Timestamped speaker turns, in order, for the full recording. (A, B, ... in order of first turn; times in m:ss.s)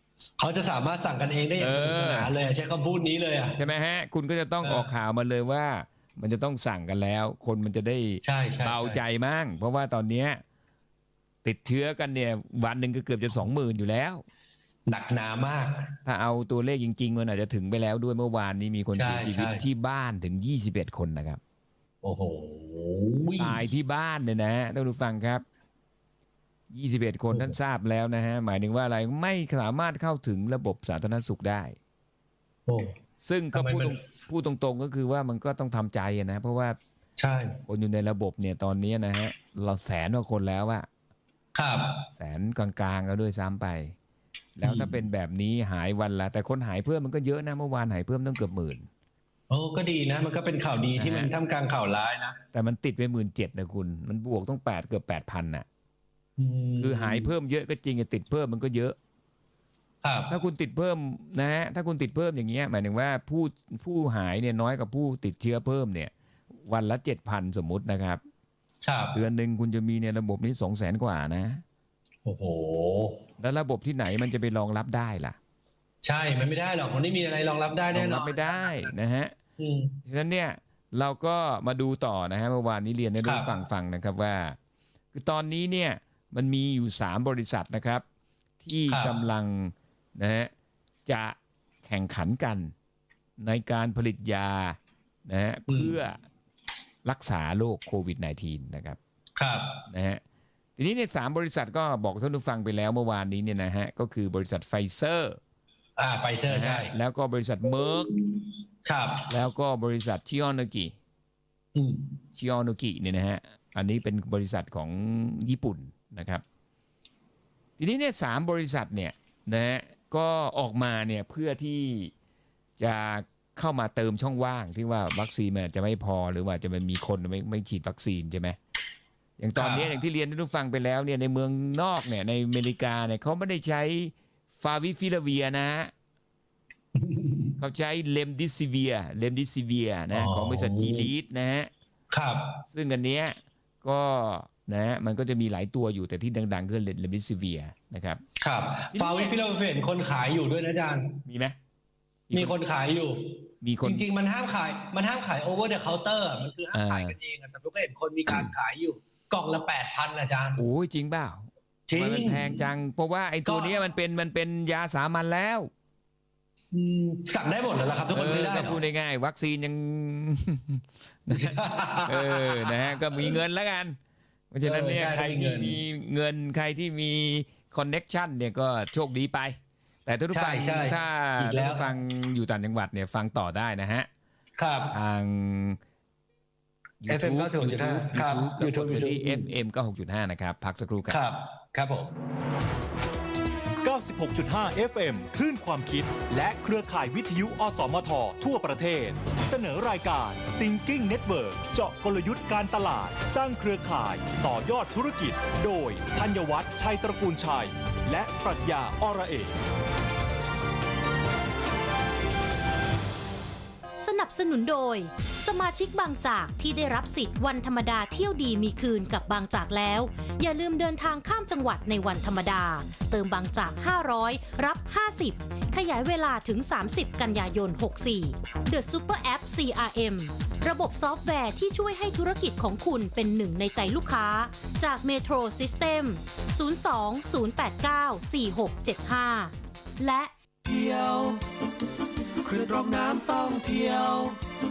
0:00.4-0:03.6 A
0:01.6-0:02.3 B
0:03.5-0:10.4 B
0:08.2-0:09.0 A
0:11.4-0:14.2 B
0:14.9-0:16.0 A
0:16.0-0:21.4 B
0:19.0-0:19.6 A
0:22.0-0:23.6 A
0:23.4-0:25.4 B
0:26.7-0:31.8 B
0:32.7-0:33.0 A
0:33.2-0:36.8 B
0:33.5-0:34.0 A
0:37.2-0:37.6 A
0:37.7-0:40.9 B
0:41.6-0:42.0 A
0:42.1-0:44.0 B
0:44.6-0:48.9 B
0:44.6-0:45.0 A
0:49.5-0:52.4 A
0:51.0-0:51.3 B
0:52.5-0:55.7 B
0:56.4-0:57.3 A
0:56.8-0:59.0 B
1:00.0-1:00.3 A
1:00.3-1:08.2 B
1:08.8-1:09.2 A
1:09.1-1:11.6 B
1:12.3-1:13.2 A
1:13.4-1:15.4 B
1:16.0-1:18.9 A
1:17.9-1:19.4 B
1:19.6-1:20.0 A
1:20.1-1:24.6 B
1:25.1-1:28.0 B
1:28.6-1:30.5 B
1:28.9-1:29.2 A
1:31.1-1:32.7 B
1:33.4-1:36.2 B
1:35.7-1:36.0 A
1:37.0-1:39.0 B
1:39.4-1:39.8 A
1:39.9-1:40.2 B
1:40.8-1:45.4 B
1:46.0-1:46.9 A
1:46.5-1:48.1 B
1:48.0-1:49.3 A
1:49.3-1:50.9 B
1:51.8-1:52.1 A
1:52.4-1:56.4 B
1:57.8-2:02.1 B
2:02.8-2:08.6 B
2:09.4-2:15.9 B
2:09.6-2:09.9 A
2:17.0-2:17.5 A
2:17.6-2:21.7 B
2:20.1-2:21.1 A
2:22.1-2:22.6 A
2:22.7-2:28.2 B
2:28.4-2:31.2 A
2:28.9-2:29.4 B
2:31.3-2:31.6 B
2:32.3-2:32.6 B
2:32.3-2:40.6 A
2:33.6-2:34.1 B
2:36.7-2:37.2 B
2:40.6-2:45.7 B
2:41.9-2:42.7 A
2:43.5-2:43.8 A
2:46.7-2:48.8 A
2:48.1-2:54.0 B
2:51.3-2:53.4 A
2:54.5-3:04.1 B
2:54.6-2:55.8 A
3:00.3-3:01.8 A
3:04.6-3:04.9 A
3:04.9-3:05.8 B
3:07.0-3:11.2 B
3:07.1-3:09.5 A
3:11.1-3:12.1 A
3:13.8-3:29.5 C
3:34.0-4:00.3 D
4:00.6-4:01.4 E
4:02.4-4:04.4 E